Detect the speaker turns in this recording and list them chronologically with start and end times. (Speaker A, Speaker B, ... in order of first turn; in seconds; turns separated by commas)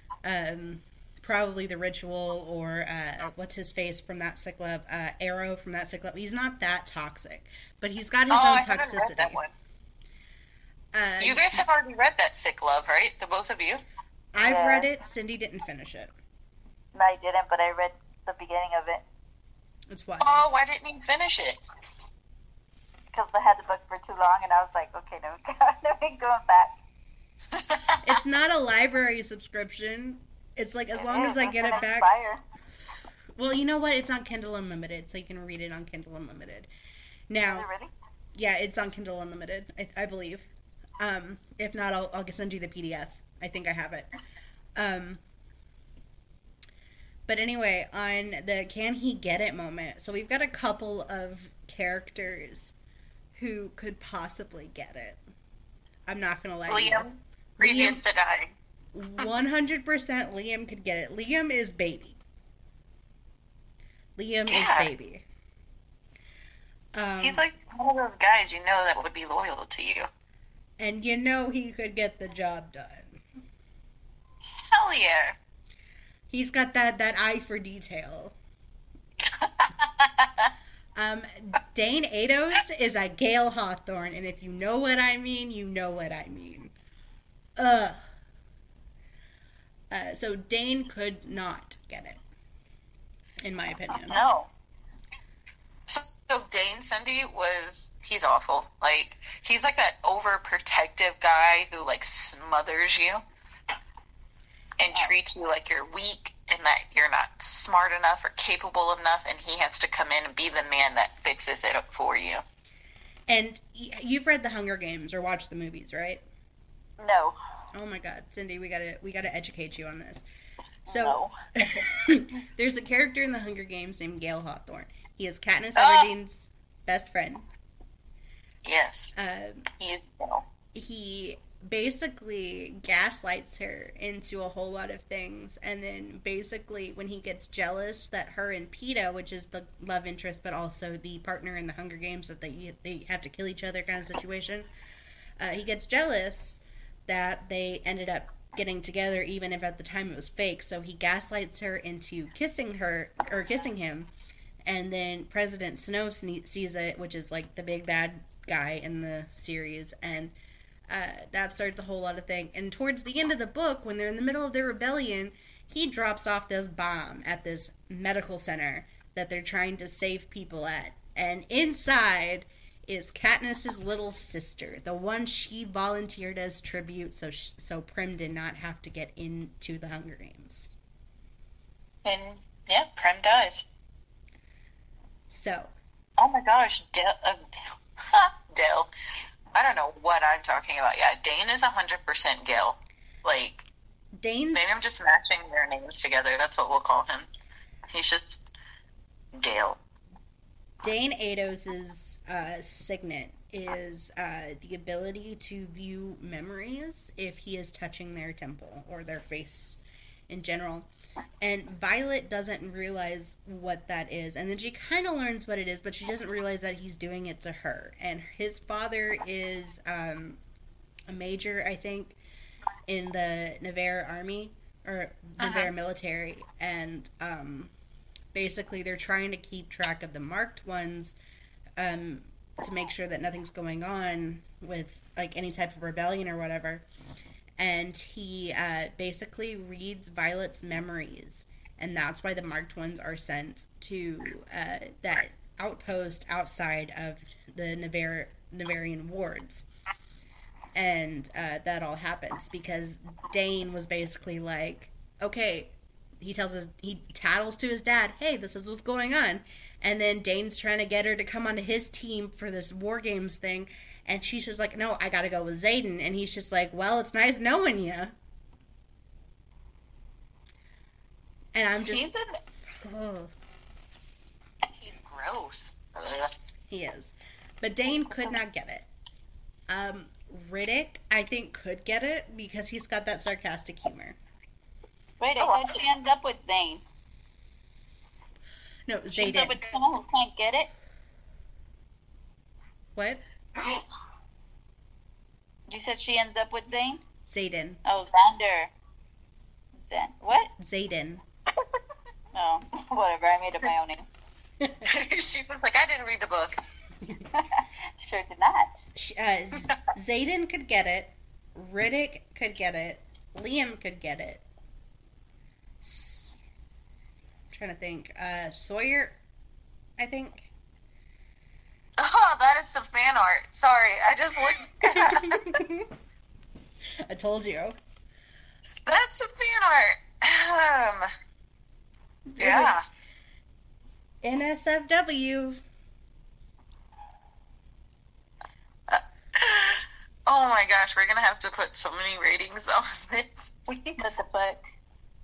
Speaker A: 0.2-9.4, Speaker B: 8.3-9.5, Speaker A: 10.9-11.6, Speaker B: 11.2-13.8, Speaker A: 14.3-16.1, Speaker C: 14.4-14.9, Speaker C: 16.9-19.0, Speaker A: 19.9-20.5, Speaker B: 20.2-21.6, Speaker C: 23.1-26.8, Speaker B: 27.6-28.0, Speaker A: 28.0-32.1, Speaker C: 30.9-32.4, Speaker A: 33.4-36.7, Speaker A: 37.3-37.7, Speaker C: 37.5-37.9, Speaker A: 38.4-44.1, Speaker A: 44.8-45.2, Speaker A: 47.3-52.8, Speaker A: 53.4-55.2, Speaker A: 56.1-58.0, Speaker B: 56.7-57.1, Speaker B: 57.6-58.5, Speaker A: 58.9-62.2, Speaker A: 64.2-65.2, Speaker B: 64.5-64.9, Speaker A: 67.0-67.4, Speaker B: 67.2-70.1, Speaker A: 70.8-73.2, Speaker B: 74.6-75.4, Speaker A: 76.3-78.3, Speaker B: 79.2-80.5, Speaker A: 81.0-86.7, Speaker A: 87.6-88.0, Speaker A: 89.9-92.2, Speaker A: 93.4-94.2, Speaker C: 94.0-94.5, Speaker B: 95.9-103.2, Speaker B: 104.8-112.4, Speaker A: 113.3-116.2, Speaker C: 117.0-117.4, Speaker A: 117.7-120.2, Speaker A: 120.9-127.5, Speaker C: 120.9-121.3, Speaker B: 125.8-126.1, Speaker B: 128.7-129.2, Speaker A: 129.2-129.7, Speaker B: 129.8-130.4, Speaker A: 130.7-144.7, Speaker A: 145.4-154.1, Speaker A: 154.7-160.3, Speaker A: 160.9-180.7, Speaker B: 182.1-183.7, Speaker A: 185.3-185.7, Speaker B: 186.2-188.9, Speaker B: 189.6-193.7, Speaker A: 194.2-195.0, Speaker B: 194.5-197.3, Speaker B: 197.9-198.4, Speaker B: 199.3-199.8, Speaker A: 200.8-210.9, Speaker A: 211.4-220.4, Speaker A: 221.1-222.2, Speaker A: 222.9-227.7, Speaker B: 225.4-225.7, Speaker A: 228.3-231.2, Speaker A: 231.8-236.8, Speaker A: 237.6-249.7, Speaker A: 250.7-268.1, Speaker A: 271.6-272.1, Speaker B: 271.9-272.4, Speaker A: 272.7-273.3, Speaker B: 274.8-276.3, Speaker A: 276.7-278.9, Speaker A: 279.7-284.2, Speaker C: 285.2-286.8, Speaker B: 285.4-285.8, Speaker A: 288.9-289.6, Speaker C: 289.1-290.7, Speaker A: 292.9-293.2, Speaker C: 295.7-297.0, Speaker A: 297.2-297.8, Speaker C: 297.9-298.7, Speaker C: 299.8-300.5, Speaker A: 300.6-301.2, Speaker C: 302.3-304.1, Speaker B: 304.8-306.6, Speaker C: 307.3-308.8, Speaker A: 308.9-314.4, Speaker A: 315.8-316.3, Speaker A: 317.5-319.2, Speaker A: 320.0-320.5, Speaker B: 322.0-325.4, Speaker A: 324.9-325.9, Speaker A: 327.1-327.8, Speaker B: 328.9-331.1, Speaker A: 332.3-332.8, Speaker B: 332.4-332.9, Speaker A: 334.2-335.6, Speaker B: 338.9-344.0, Speaker C: 344.0-344.6